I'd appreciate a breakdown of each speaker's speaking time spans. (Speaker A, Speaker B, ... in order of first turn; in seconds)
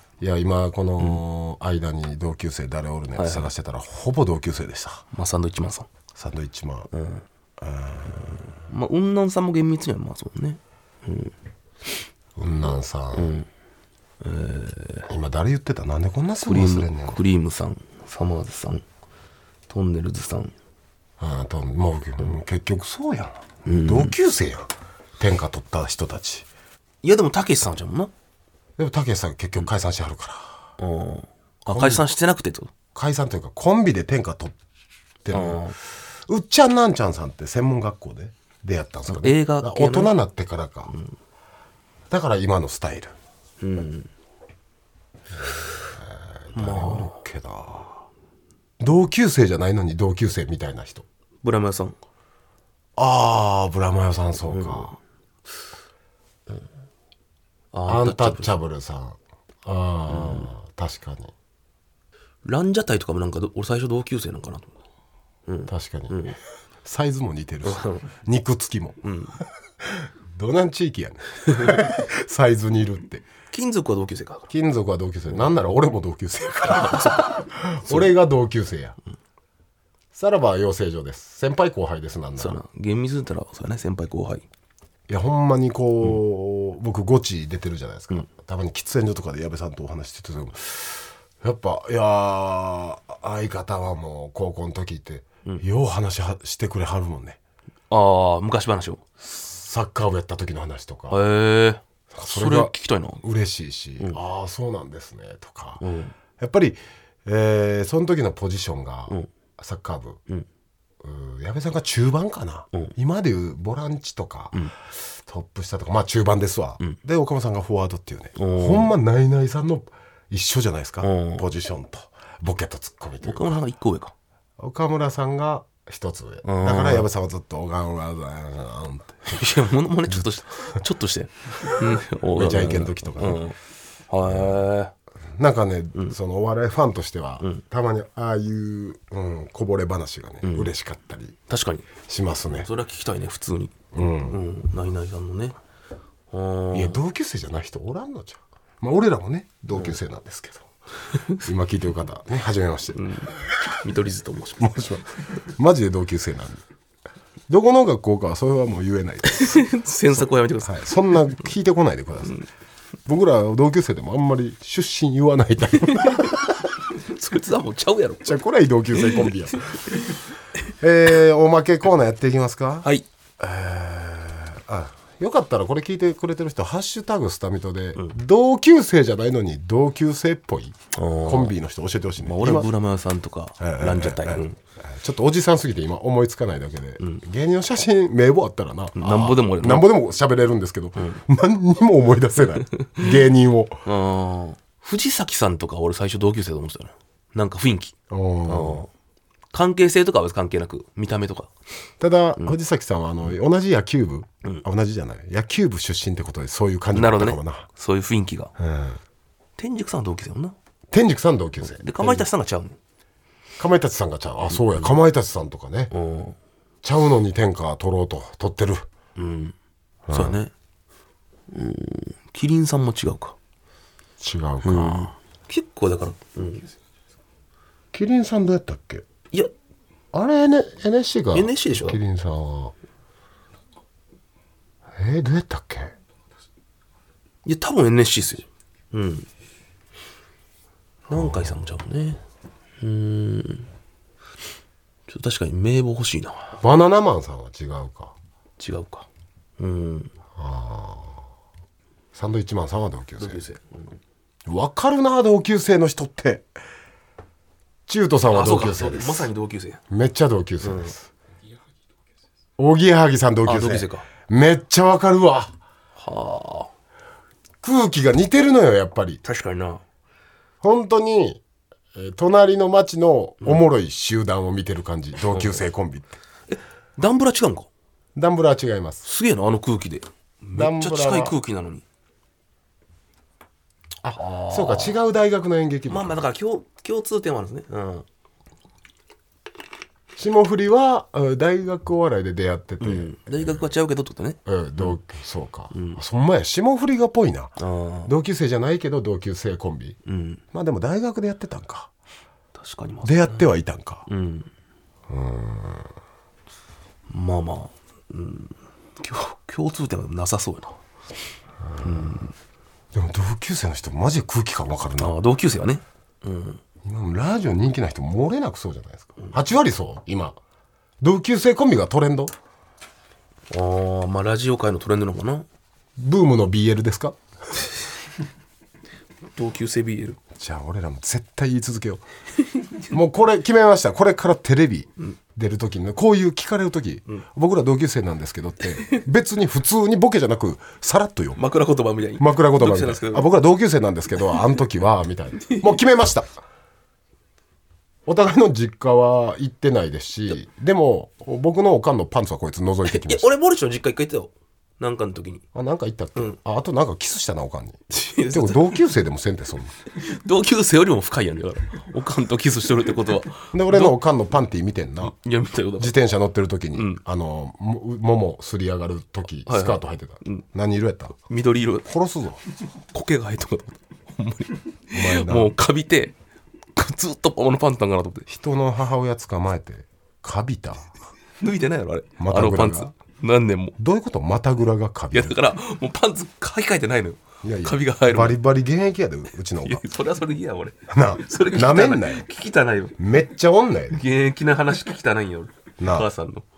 Speaker A: 0.2-5.0, 6.2-6.9, 7.6-8.4, 12.4-13.3, 15.1-17.2, 21.2-24.7, 25.2-26.4, 28.8-30.6, 31.7-32.0, 32.9-34.5, 35.2-35.6, 36.3-40.9, 42.1-43.1, 45.9-48.0, 48.8-51.0, 53.0-54.9, 57.9-61.3, 65.7-66.2, 66.8-69.0, 70.0-73.2, 74.5-79.0, 80.1-82.6, 85.1-97.4, 99.2-101.2, 102.1-105.8, 106.4-110.2, 111.0-123.6, 124.6-129.4, 130.1-130.5, 132.3-133.5, 134.2-134.6, 135.4-141.3, 142.1-142.7, 143.9-144.4, 146.7-150.7, 151.4-153.4, 154.6-156.6, 157.5-162.4, 163.1-166.4, 168.2-169.7, 170.8-172.9, 173.4-182.7, 183.6-193.8, 198.1-198.8, 202.0-207.7, 208.6-209.0, 210.9-212.3, 213.6-215.9, 216.8-218.8, 220.1-220.4, 224.2-225.1, 227.9-229.0, 230.1-232.7, 235.0-235.9, 241.1-241.7, 246.6-248.1, 250.4-251.2, 252.1-253.5, 254.5-256.4, 257.9-259.3, 259.9-261.1, 262.6-265.5, 267.6-269.2, 270.6-271.4, 271.9-276.1, 278.1-279.0, 280.5-281.4, 284.0-286.2, 290.2-293.7, 294.4-300.0, 300.5-301.9, 303.0-304.1, 305.1-305.9, 311.6-312.1, 312.9-315.1, 316.8-320.4, 321.0-322.3, 326.0-327.2, 330.4-332.0, 332.9-341.4, 342.2-346.3, 348.1-353.3, 355.5-357.8, 358.3-359.7, 363.5-365.1, 365.8-371.1, 371.9-372.4, 374.9-375.5, 378.3-380.9, 382.2-382.9, 383.8-385.4, 387.4-389.8, 390.9-392.2, 393.0-394.0, 395.8-396.1
Speaker B: 3.1-3.5, 5.1-5.9, 6.9-7.2, 8.4-11.3, 13.1-13.5, 14.2-15.1, 16.4-18.8, 19.7-20.5, 23.6-24.1, 27.0-28.1, 30.8-32.7, 35.3-35.7, 39.1-40.1, 43.6-44.1, 46.5-47.1, 51.4-52.0, 54.4-55.0, 57.7-58.6, 60.1-60.5, 62.4-64.7, 65.5-66.4, 67.6-68.1, 69.0-69.4, 73.5-74.4, 76.7-78.1, 82.4-84.4, 97.9-99.0, 101.1-103.2, 105.8-106.1, 118.3-118.9, 121.0-121.4, 123.2-124.1, 126.4-127.1, 129.3-133.6, 134.1-134.9, 140.4-140.7, 141.5-141.9, 142.5-145.6, 146.3-147.0, 152.9-154.8, 159.3-160.9, 165.9-166.3, 166.9-168.4, 168.9-169.3, 169.9-170.2, 180.9-181.5, 182.2-184.6, 188.9-189.9, 193.8-197.9, 198.5-198.9, 199.5-201.5, 206.9-208.5, 209.6-210.6, 211.7-212.8, 214.5-214.9, 215.9-216.3, 219.2-219.5, 220.1-220.5, 221.5-223.3, 224.6-226.7, 231.3-232.0, 237.4-239.3, 241.1-242.2, 242.8-243.7, 245.1-246.5, 248.6-249.1, 249.6-250.1, 253.2-253.9, 258.3-259.8, 260.6-260.9, 263.4-264.1, 266.0-266.7, 269.2-269.8, 275.3-275.6, 276.5-277.7, 279.0-281.8, 284.1-285.0, 285.9-288.1, 292.8-295.0, 295.7-296.0, 297.6-298.1, 300.0-300.4, 302.6-303.5, 304.1-304.5, 307.1-310.8, 311.8-312.3, 315.0-316.6, 323.5-325.4, 329.3-330.2, 341.3-343.3, 345.5-345.7, 352.9-355.4, 357.9-358.8, 359.9-364.0, 365.0-365.9, 366.7-367.0, 369.4-370.4, 371.2-371.9, 372.9-376.1, 376.8-378.3, 381.4-383.8, 385.1-388.4, 389.6-392.9, 393.9-396.4